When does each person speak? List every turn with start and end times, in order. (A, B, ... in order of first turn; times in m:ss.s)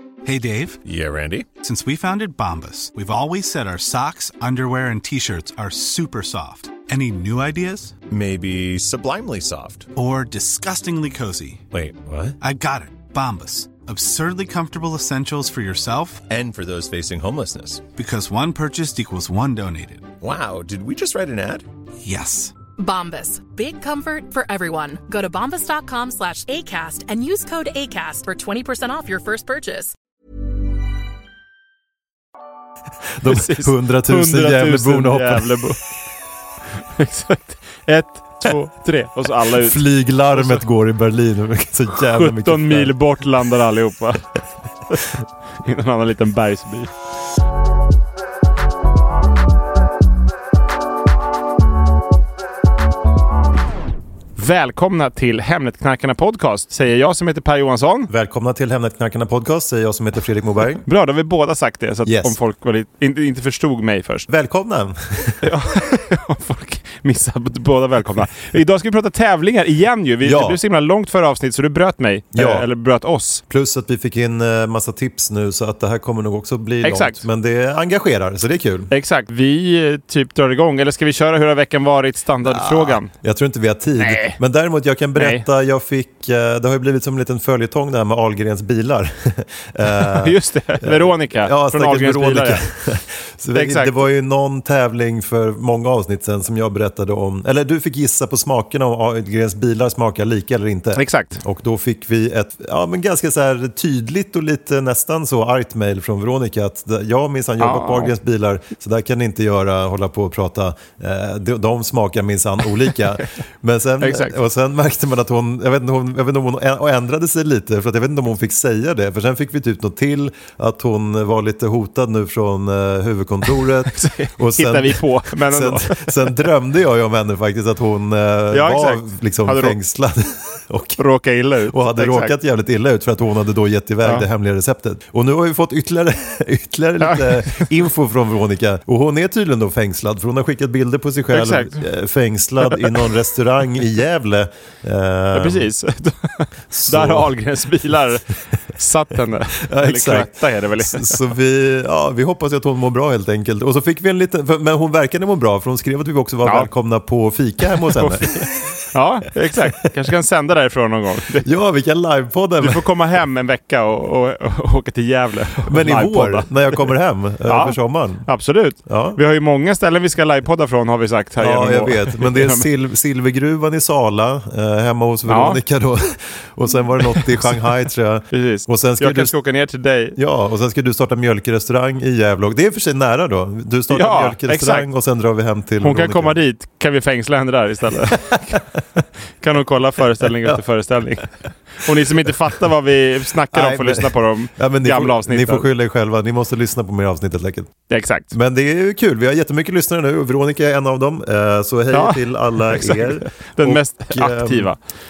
0:00.2-0:00.8 A
0:00.8-0:01.5 B
0:01.6-0:08.0 A
0:08.1-0:09.9 B
0:09.9-0:11.6 A
0:11.7-0:12.4 B
0:12.4-0:16.2 A
0:16.3-0:17.8 B
0:18.0-0:20.1 A
0:20.2-0:21.6 B
0:22.0-0:22.5 A
0:22.8-0:29.9 C
0:33.2-0:35.6 D
0:33.2-0:35.8 E
0:36.9-0:39.8 E
0:39.4-0:42.9 D
0:40.3-0:40.6 E
0:42.1-0:44.3 E
0:45.6-0:46.9 E
0:54.4-0:58.1 E
0:58.1-1:00.8 D
1:00.9-1:04.3 E
1:02.0-1:02.4 D
1:04.3-1:05.4 D
1:05.4-1:13.4 E
1:10.2-1:10.6 D
1:12.3-1:12.7 D
1:13.5-1:18.9 D
1:16.8-1:17.2 E
1:18.9-1:23.1 E
1:22.4-2:11.0 D
1:24.0-1:24.4 E
1:25.2-1:25.4 E
1:29.9-1:32.6 E
1:33.5-1:34.0 E
1:40.9-1:41.4 E
1:47.6-1:48.1 E
1:54.0-1:54.4 E
2:03.8-2:06.4 E
2:08.5-2:09.7 E
2:11.0-2:12.3 E
2:11.7-2:25.7 D
2:17.0-2:17.7 E
2:21.3-2:21.8 E
2:22.7-2:23.1 E
2:25.3-2:31.2 E
2:26.7-2:27.3 D
2:29.6-2:38.7 D
2:36.4-2:36.7 E
2:37.8-2:41.5 E
2:41.4-2:42.8 D
2:42.6-2:46.9 E
2:45.6-2:48.3 D
2:47.4-2:52.7 E
2:48.8-2:49.2 D
2:51.4-2:59.3 D
2:55.2-2:55.6 E
2:57.1-2:57.5 E
2:58.3-3:00.2 E
3:00.2-3:06.4 D
3:03.9-3:04.9 E
3:05.8-3:08.6 E
3:07.9-3:09.0 D
3:09.4-3:15.6 E
3:13.5-3:17.7 D
3:17.9-3:18.3 E
3:18.3-3:24.7 D
3:21.9-3:24.8 E